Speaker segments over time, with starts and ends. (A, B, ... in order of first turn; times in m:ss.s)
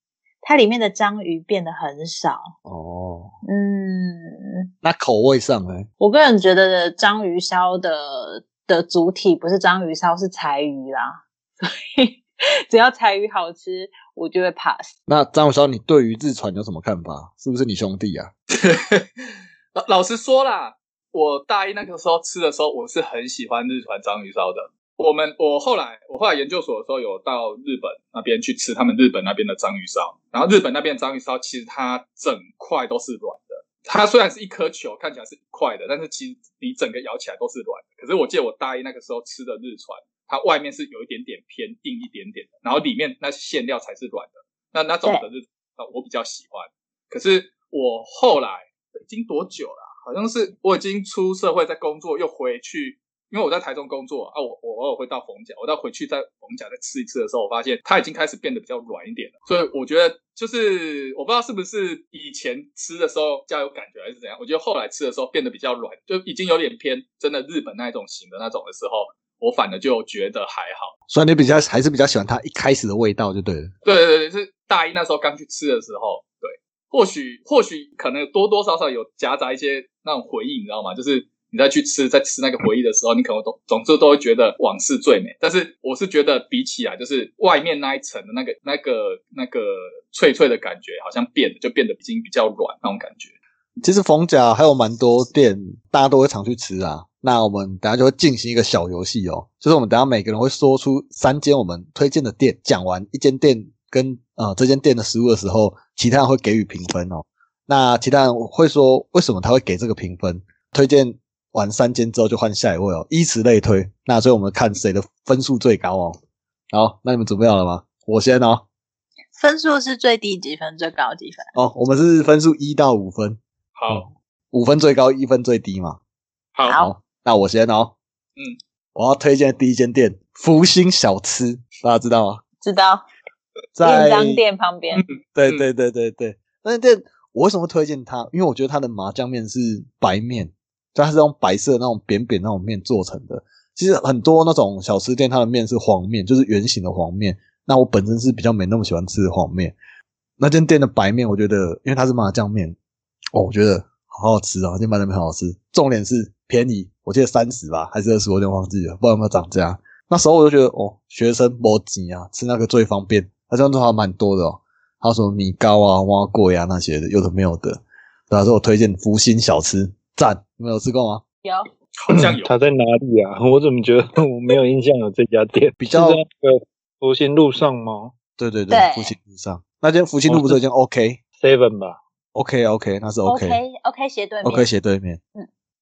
0:00.4-0:02.5 A
0:02.7-0:03.3 B
0:03.5-0:04.5 A
0:04.8-0:05.9 B
0:06.0-0:14.9 A
0:15.1-0:18.3 B
0:18.6-1:10.9 C
1:11.1-1:13.7 B
1:13.8-1:33.3 C
1:33.8-1:56.2 B
1:56.7-1:58.6 B
1:59.4-2:01.5 A
2:01.6-2:06.0 B
2:03.8-2:04.1 C
2:06.7-2:06.9 A
2:06.7-2:07.9 B
2:09.0-2:12.4 B
2:12.6-2:13.0 A
2:13.8-2:14.4 B
2:13.8-2:15.0 A
2:15.0-2:15.6 C
2:15.4-2:29.8 B
2:30.4-2:32.8 B
2:33.3-2:51.2 B
2:52.0-2:52.5 C
2:52.1-2:58.1 D
2:55.8-2:56.2 B
2:58.4-3:01.2 B
2:58.7-2:59.1 A
3:00.3-3:00.6 D
3:01.4-3:02.0 D
3:02.3-3:03.6 B
3:03.2-3:04.7 A
3:04.4-3:05.2 B